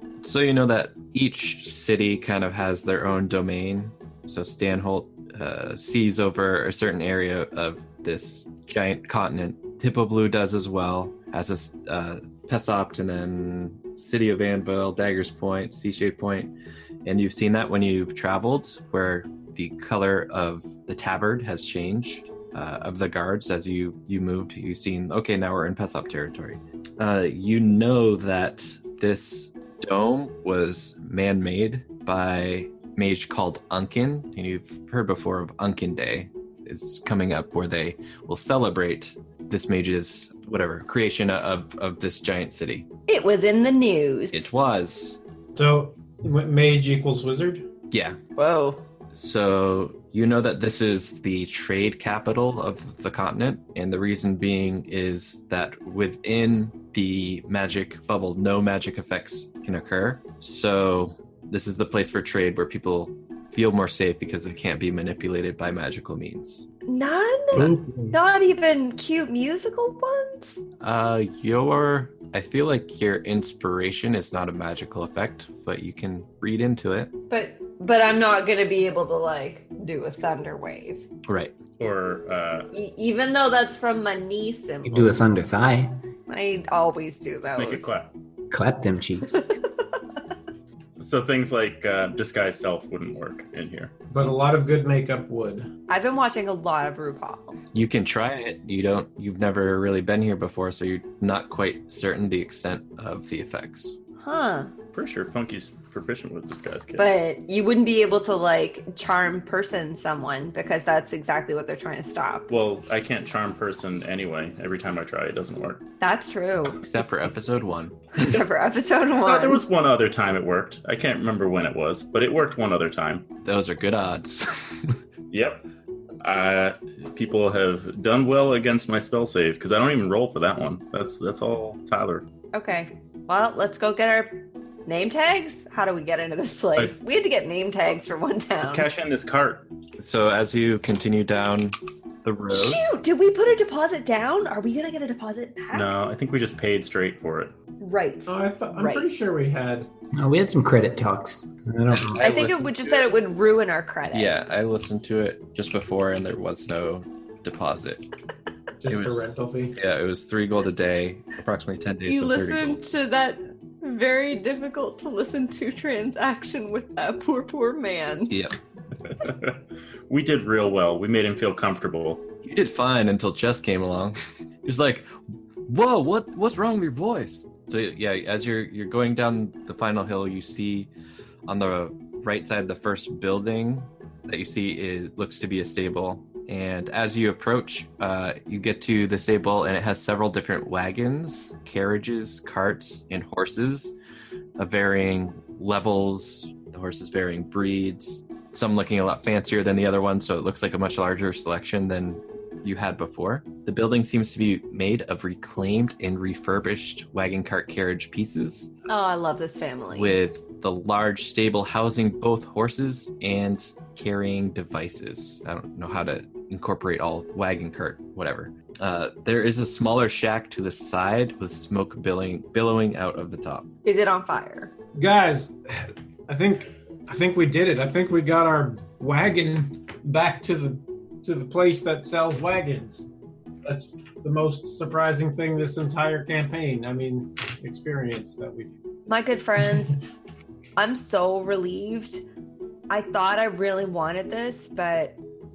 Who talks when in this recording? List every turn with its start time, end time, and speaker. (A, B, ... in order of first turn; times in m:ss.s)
0:00.2-0:16.5 A
0:17.0-0:42.9 A
0:43.1-0:44.5 B
0:44.3-0:45.2 A
0:45.6-0:47.6 C
0:47.9-0:48.2 A
0:48.4-0:48.8 B
0:49.1-1:06.6 A
1:06.9-1:10.6 B
1:07.5-1:08.1 D
1:10.8-1:17.1 A
1:17.3-1:21.0 B
1:21.2-1:21.5 A
1:21.8-1:22.7 E
1:22.7-1:25.4 B
1:24.8-1:26.0 D
1:26.3-1:28.0 B
1:27.6-1:28.1 E
1:28.5-1:29.4 D
1:31.0-1:33.9 E
1:34.1-1:35.7 C
1:35.9-1:37.6 B
1:37.7-1:44.0 A
1:44.2-1:44.7 B
1:44.9-1:47.1 E
1:47.0-1:52.5 B
1:52.5-1:55.8 E
1:56.0-1:56.8 B
1:56.8-1:58.4 A
1:58.2-1:59.6 B
1:59.2-2:03.2 E
2:03.4-2:05.0 A
2:05.3-2:05.6 E
2:06.2-2:12.2 E
2:12.5-2:18.9 B
2:18.6-2:19.7 E
2:20.0-2:22.8 A
2:22.5-2:25.9 B
2:25.7-2:27.5 E
2:27.8-2:29.3 B
2:28.3-2:29.9 C
2:30.1-2:32.2 D
2:32.0-2:33.0 A
2:32.2-2:34.4 B
2:34.1-2:38.0 A
2:38.8-2:39.8 C
2:38.9-2:42.8 A
2:42.1-2:48.4 B
2:48.3-2:48.5 A
2:49.1-2:52.2 E
2:52.4-2:55.1 A
2:55.7-3:00.9 A
3:01.4-3:13.9 A
3:14.6-3:28.7 A
3:28.9-3:30.2 B
3:29.9-3:43.7 A
3:43.8-3:44.7 B
3:44.9-3:53.1 C
3:53.6-3:58.8 C
3:59.1-4:00.0 B
4:00.8-4:02.2 B
4:02.9-4:05.2 B